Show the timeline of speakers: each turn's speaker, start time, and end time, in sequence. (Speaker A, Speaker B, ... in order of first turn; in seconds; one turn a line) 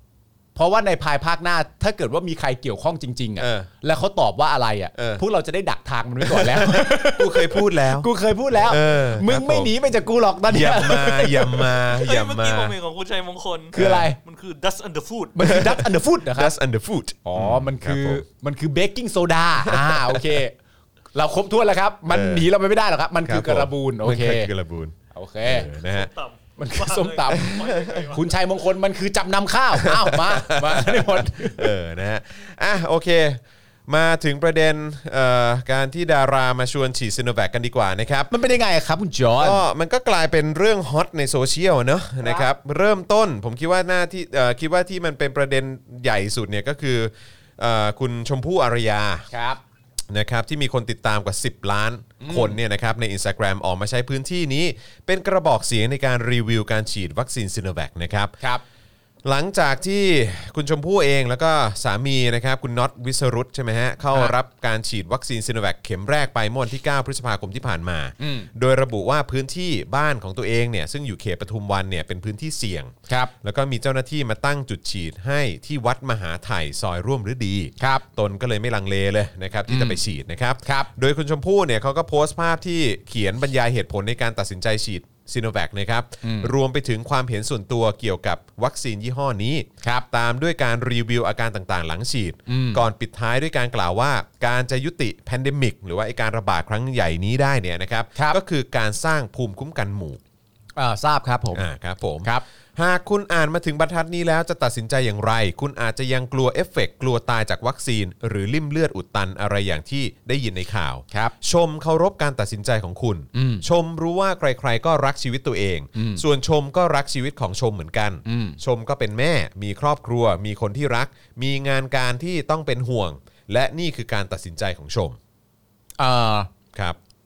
Speaker A: 0.5-11.7
Speaker B: 3.4-3.7
Speaker B: 5.0-5.2
Speaker B: 6.2-9.7
Speaker B: 10.5-12.7
Speaker C: 11.9-15.7
Speaker A: 13.7-14.2
Speaker B: 13.8-14.1
Speaker A: 15.3-16.6
Speaker B: 15.4-18.2
Speaker A: 17.2-20.6
Speaker B: 19.6-20.4
Speaker A: 21.1-24.5
Speaker B: 22.1-22.5
Speaker B: 23.2-26.1
Speaker A: 25.1-25.7
Speaker C: 25.7-28.5
Speaker A: 26.6-31.7
Speaker B: 27.3-28.0
Speaker B: 29.8-38.3
Speaker A: 38.3-39.6
Speaker B: 39.4-49.3
Speaker A: 42.2-42.5
Speaker A: 49.3-49.6
Speaker B: 50.1-58.4
Speaker A: 52.2-52.6
Speaker B: 59.2-100.2
Speaker A: 68.2-68.5
Speaker A: 73.1-73.3
Speaker A: 77.8-78.0
Speaker A: 79.7-80.0
Speaker A: 80.6-80.9
Speaker A: 86.2-86.5
Speaker A: 89.8-90.1
Speaker A: 92.5-92.8
Speaker A: 100.8-101.6
Speaker B: 101.5-125.2
Speaker A: 113.3-113.7
Speaker A: 115.9-116.2
Speaker A: 118.2-118.6
Speaker A: 126.0-126.5